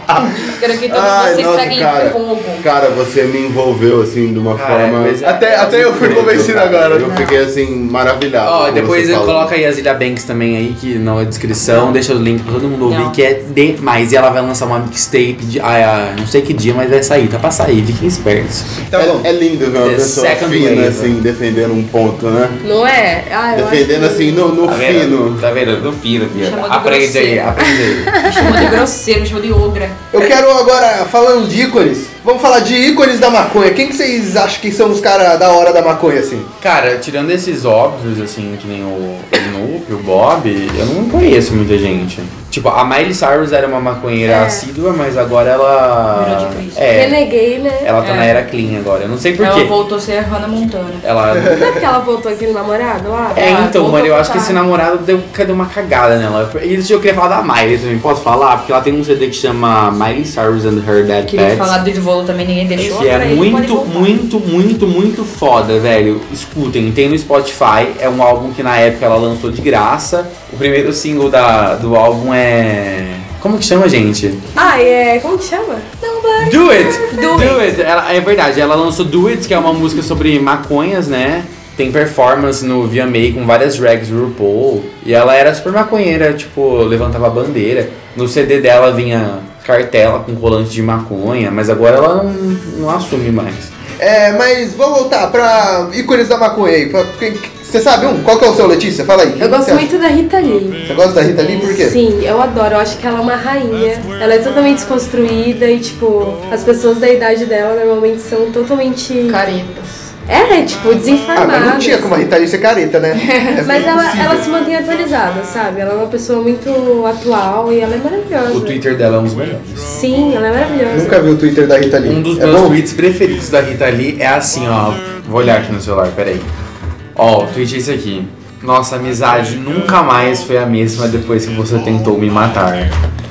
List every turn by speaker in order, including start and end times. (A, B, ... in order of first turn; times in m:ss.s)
0:00.3-0:02.6 A
0:00.9-0:05.2 B
0:04.5-0:07.0 C
0:05.2-0:07.1 D
0:05.8-0:09.5 B
0:08.4-0:18.8 C
0:11.7-0:12.0 A
0:12.8-0:13.2 A
0:18.9-0:19.3 D
0:18.9-0:22.6 B
0:19.8-0:21.1 C
0:22.6-0:24.6 E
0:23.5-0:25.4 B
0:24.6-0:28.5 C
0:26.3-0:27.6 A
0:28.2-0:30.0 A
0:30.1-0:36.5 D
0:36.6-0:47.2 C
0:44.2-0:44.6 E
0:46.1-0:46.8 A
0:46.9-0:47.9 E
0:47.8-0:49.7 C
0:48.0-0:48.3 A
0:49.4-0:51.0 A
0:51.0-0:51.7 C
0:51.3-0:51.8 D
0:51.4-0:53.5 E
0:53.3-0:54.6 A
0:53.3-1:01.8 C
1:01.3-1:04.1 A
1:02.8-1:14.4 C
1:14.6-1:17.7 E
1:16.4-1:33.7 C
1:34.0-1:39.9 D
1:39.4-1:49.4 E
1:40.9-1:42.0 D
1:49.3-1:50.1 A
1:50.3-1:52.1 E
1:51.3-1:54.5 D
1:53.2-1:53.6 A
1:53.6-1:58.8 E
1:58.5-1:59.9 C
1:59.9-2:01.2 E
2:00.9-2:02.8 D
2:02.0-2:06.5 C
2:07.2-2:12.9 C